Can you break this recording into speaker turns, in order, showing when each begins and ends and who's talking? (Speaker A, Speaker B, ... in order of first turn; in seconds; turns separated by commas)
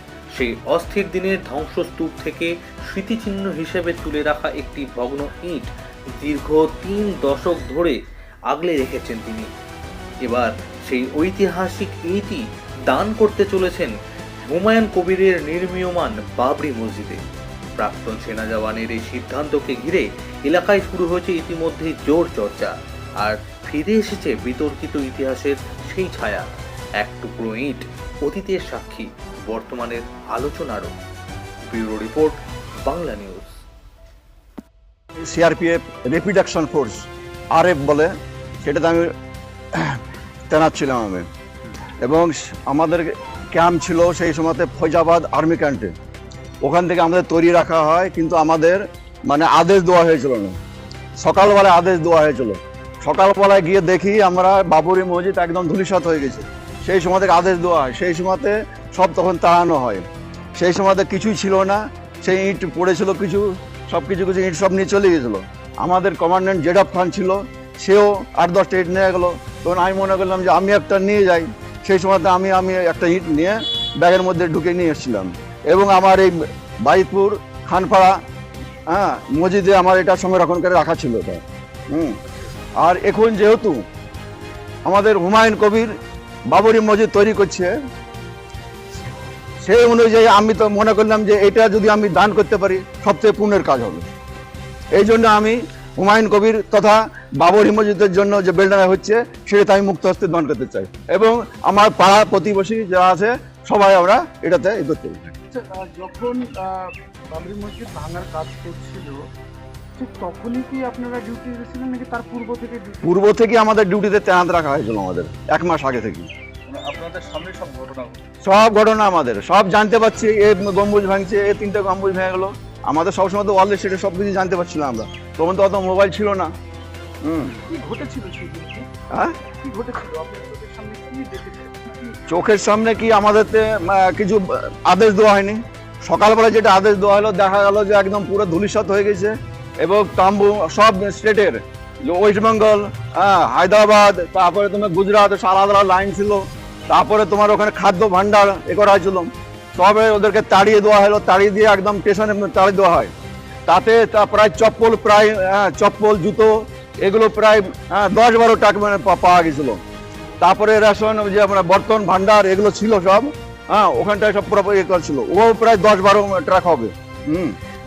Speaker A: 0.3-9.5, Speaker A: 10.2-17.2, Speaker A: 17.8-26.5, Speaker A: 27.0-30.9, Speaker A: 31.6-33.6, Speaker B: 35.2-38.1, Speaker B: 38.6-39.1, Speaker B: 39.7-41.3, Speaker B: 42.0-45.9, Speaker B: 46.6-50.6, Speaker B: 51.2-78.2, Speaker B: 78.9-82.2, Speaker B: 82.8-83.8, Speaker B: 84.8-85.9, Speaker B: 86.5-87.7, Speaker B: 89.6-94.1, Speaker B: 94.9-105.3, Speaker C: 105.5-109.2, Speaker C: 110.0-113.1, Speaker B: 113.0-116.3, Speaker B: 118.4-126.5, Speaker B: 127.2-127.5, Speaker C: 127.6-128.9, Speaker B: 129.1-129.4, Speaker C: 129.5-132.2, Speaker B: 132.3-153.1, Speaker B: 153.7-159.8, Speaker B: 160.4-167.6